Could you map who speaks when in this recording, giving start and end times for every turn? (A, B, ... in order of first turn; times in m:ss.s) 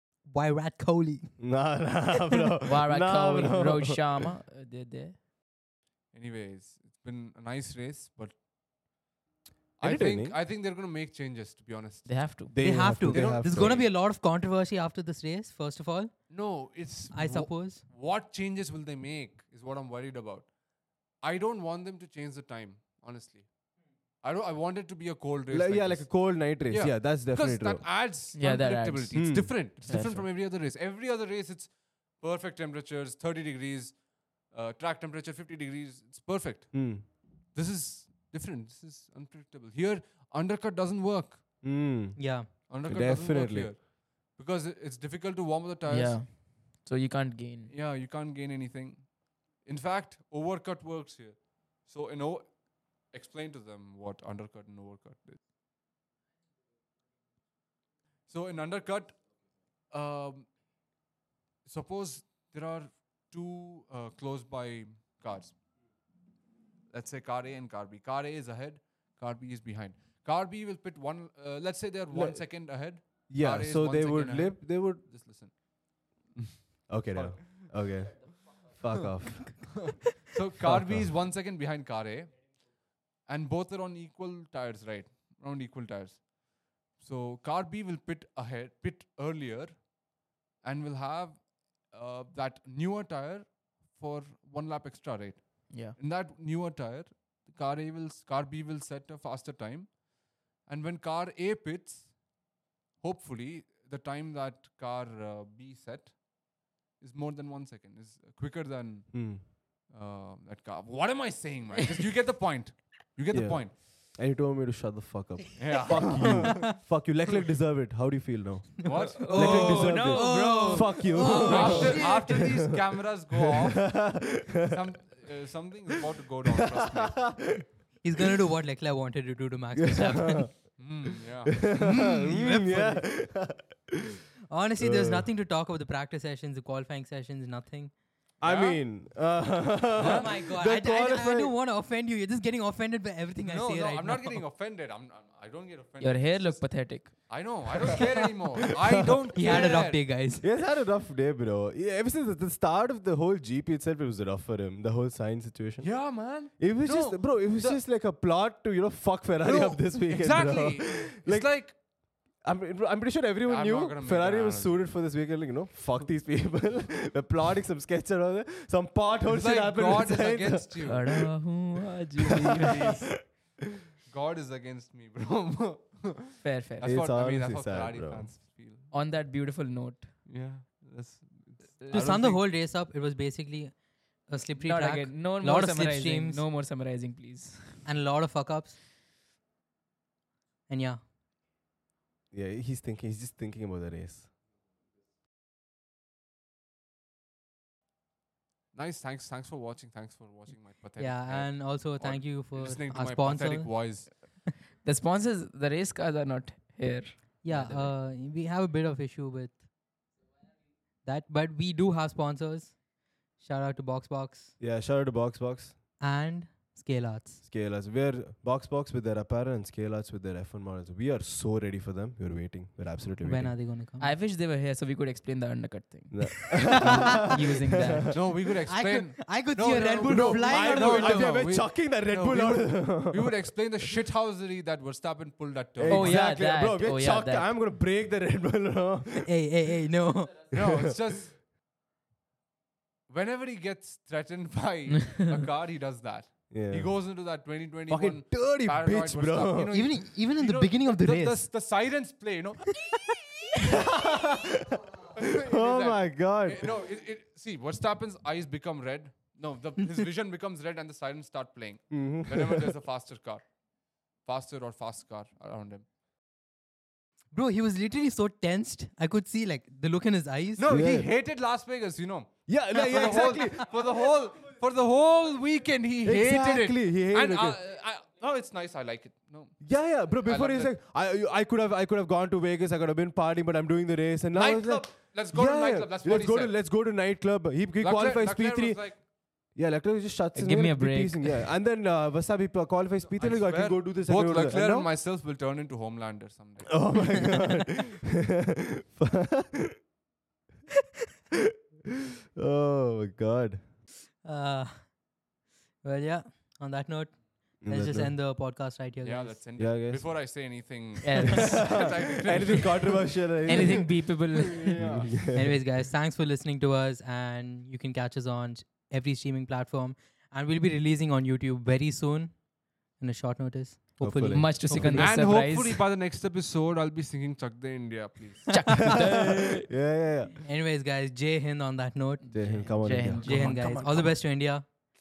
0:00.2-0:01.4 A
0:01.4-0:04.3 B
0:02.6-0:05.2 C
0:06.1-0:08.4 D
0:09.8-0:12.2 D
0:09.8-0:10.4 B
0:12.0-0:12.5 C
0:12.5-0:13.8 B
0:12.6-0:16.1 A
0:13.1-0:13.9 D
0:16.3-0:20.5 D
0:17.1-0:17.8 A
0:21.2-0:23.5 D
0:24.2-0:34.0 D
0:25.5-0:27.8 B
0:28.3-0:30.3 C
0:29.1-0:29.5 B
0:34.5-0:41.4 D
0:36.7-0:37.0 B
0:41.6-0:43.7 B
0:42.2-0:42.5 A
0:42.7-0:46.2 D
0:45.9-0:47.7 C
0:47.7-0:55.4 D
0:58.3-0:59.2 D
0:59.9-1:00.5 D
1:01.6-1:05.5 D
1:06.9-1:15.6 D
1:12.1-1:12.4 B
1:13.0-1:15.0 B
1:16.4-1:17.8 D
1:16.9-1:20.0 B
1:19.7-1:22.5 D
1:20.6-1:21.1 B
1:23.2-1:26.3 D
1:26.9-1:29.9 D
1:30.6-1:39.9 D
1:35.7-1:36.0 C
1:40.6-1:42.1 D
1:43.0-1:46.2 D
1:47.0-1:53.8 D
1:49.1-1:49.4 B
1:53.3-2:02.7 B
1:55.6-1:56.6 D
1:56.2-1:56.7 A
1:58.8-1:59.9 D
1:59.2-2:02.4 C
1:59.2-2:02.3 A
2:01.5-2:04.1 D
2:03.5-2:04.8 B
2:04.7-2:07.3 D
2:06.5-2:07.6 B
2:08.0-2:10.5 A
2:09.8-2:10.5 B
2:10.8-2:11.7 D
2:11.5-2:14.2 B
2:11.8-2:13.1 A
2:14.5-2:17.9 A
2:14.8-2:15.3 B
2:18.4-2:19.0 D
2:18.4-2:21.5 B
2:20.0-2:20.3 D
2:20.0-2:24.4 A
2:23.4-2:30.0 D
2:26.0-2:27.4 C
2:29.0-2:29.7 B
2:29.3-2:30.5 A
2:30.4-2:35.9 B
2:35.8-2:37.8 D
2:36.6-2:41.5 B
2:39.4-2:41.7 D
2:42.4-2:51.2 B
2:43.5-2:44.8 D
2:49.3-2:51.0 D
2:50.8-2:53.0 C
2:52.3-2:53.2 B
2:52.5-2:53.3 D
2:54.1-2:58.9 D
2:56.4-2:56.9 C
2:56.8-2:58.3 B
2:58.9-3:00.1 C
3:00.2-3:02.4 D
3:01.9-3:03.7 A
3:04.3-3:06.4 A
3:04.6-3:07.8 C
3:07.8-3:08.8 A
3:10.7-3:11.0 A
3:12.3-3:14.3 B
3:18.7-3:24.1 D
3:21.0-3:23.7 A
3:24.8-3:27.9 C
3:27.4-3:29.6 A
3:31.0-3:32.8 A
3:33.4-3:34.5 A
3:34.6-3:35.7 B
3:36.0-3:37.4 A
3:37.4-3:43.6 B
3:43.2-3:44.1 A
3:44.0-3:48.0 C
3:46.1-3:48.3 B
3:46.7-3:48.1 A
3:48.1-3:56.2 D
3:48.7-3:51.4 A
3:50.0-3:53.5 B
3:55.8-3:59.4 B
3:55.9-3:57.5 C
3:59.2-4:00.4 A
4:00.5-4:00.9 B
4:00.5-4:01.4 D
4:03.1-4:12.8 D
4:06.5-4:07.0 B
4:07.9-4:09.8 B
4:09.7-4:11.4 A
4:13.5-4:16.8 B
4:15.2-4:23.4 D
4:21.9-4:22.7 B
4:24.2-4:25.8 D
4:27.3-4:30.7 A
4:30.6-4:39.6 D
4:30.7-4:31.1 B
4:32.5-4:33.7 B
4:36.0-4:37.6 B
4:39.6-4:48.8 B
4:40.1-4:40.7 D
4:44.3-4:46.5 D
4:47.8-4:49.0 D
4:49.5-4:54.9 B
4:50.3-4:51.5 C
4:53.1-4:57.2 D
4:56.7-4:59.8 B
5:02.4-5:03.6 B
5:04.2-5:04.9 A
5:05.8-5:09.4 A
5:07.6-5:08.1 B
5:09.0-5:15.1 D
5:09.6-5:10.1 B
5:11.0-5:12.6 C
5:11.3-5:15.6 B
5:13.4-5:14.8 C
5:15.3-5:22.4 A
5:23.0-5:25.0 A
5:24.0-5:25.2 B
5:24.3-5:25.8 C
5:24.9-5:28.6 D
5:28.5-5:29.6 C
5:28.9-5:30.4 B
5:30.4-5:34.6 A
5:32.2-5:33.7 C
5:32.3-5:34.2 B